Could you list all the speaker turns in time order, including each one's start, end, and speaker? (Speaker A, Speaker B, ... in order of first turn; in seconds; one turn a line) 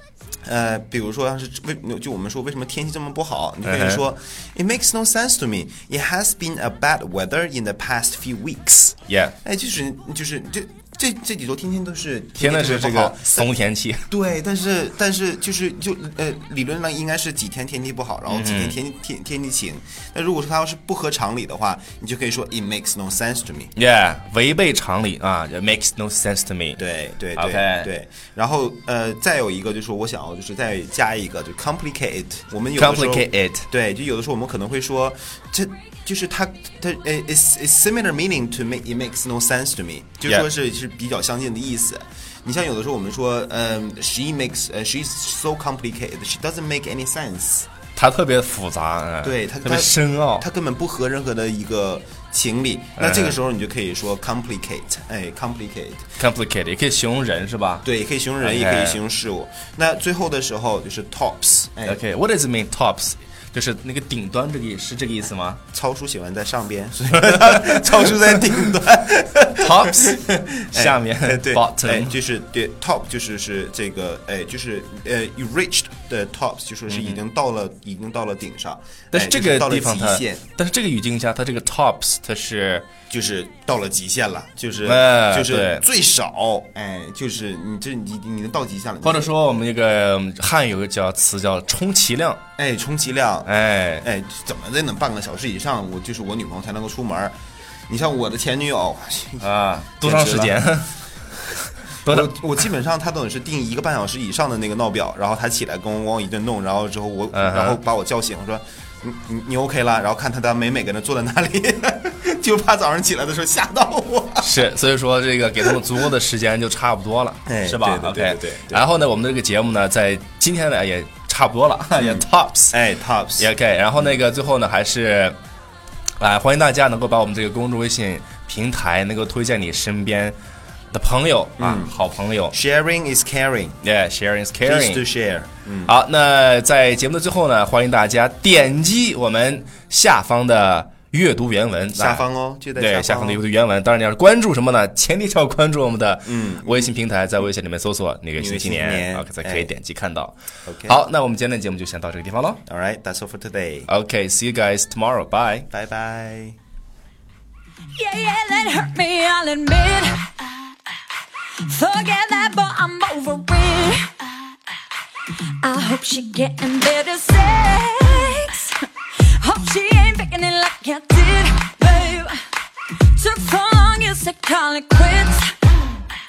Speaker A: 0.5-13.5
Speaker B: 3.6-4.0
Speaker B: 9.1-9.3
Speaker B: 12.4-14.1
Speaker A: 14.1-23.7
Speaker B: 18.3-18.8
Speaker B: 23.8-26.8
Speaker A: 26.8-47.7
Speaker B: 27.4-27.9
Speaker B: 32.8-33.7
Speaker B: 48.0-50.5
Speaker A: 49.2-56.0
Speaker B: 53.0-53.4
Speaker B: 56.2-57.9
Speaker A: 57.8-62.0
Speaker B: 58.4-59.0
Speaker B: 61.9-65.6
Speaker A: 65.7-80.5
Speaker B: 67.2-68.4
Speaker B: 69.6-72.2
Speaker B: 76.9-77.2
Speaker B: 79.1-82.9
Speaker A: 83.1-89.3
Speaker B: 84.8-85.8
Speaker B: 89.0-92.4
Speaker A: 92.6-97.4
Speaker B: 93.5-94.0
Speaker A: 97.9-100.6
Speaker B: 99.4-101.0
Speaker B: 101.8-102.3
Speaker A: 102.0-114.7
Speaker B: 107.3-107.8
Speaker B: 114.4-122.8
Speaker A: 115.6-116.0
Speaker A: 117.5-118.8
Speaker A: 122.0-124.2
Speaker B: 123.4-125.4
Speaker B: 126.2-130.4
Speaker B: 130.9-132.6
Speaker A: 131.6-131.9
Speaker A: 132.5-133.8
Speaker B: 133.8-135.0
Speaker A: 134.6-135.9
Speaker B: 135.9-142.2
Speaker A: 141.9-143.4
Speaker B: 142.8-150.3
Speaker A: 146.3-146.9
Speaker A: 148.4-149.7
Speaker A: 150.7-151.0
Speaker B: 150.9-152.6
Speaker A: 152.7-153.9
Speaker B: 153.9-155.7
Speaker A: 155.7-156.6
Speaker C: 157.9-160.5
Speaker C: 161.6-164.3
Speaker C: 165.6-172.4
Speaker C: 173.0-175.6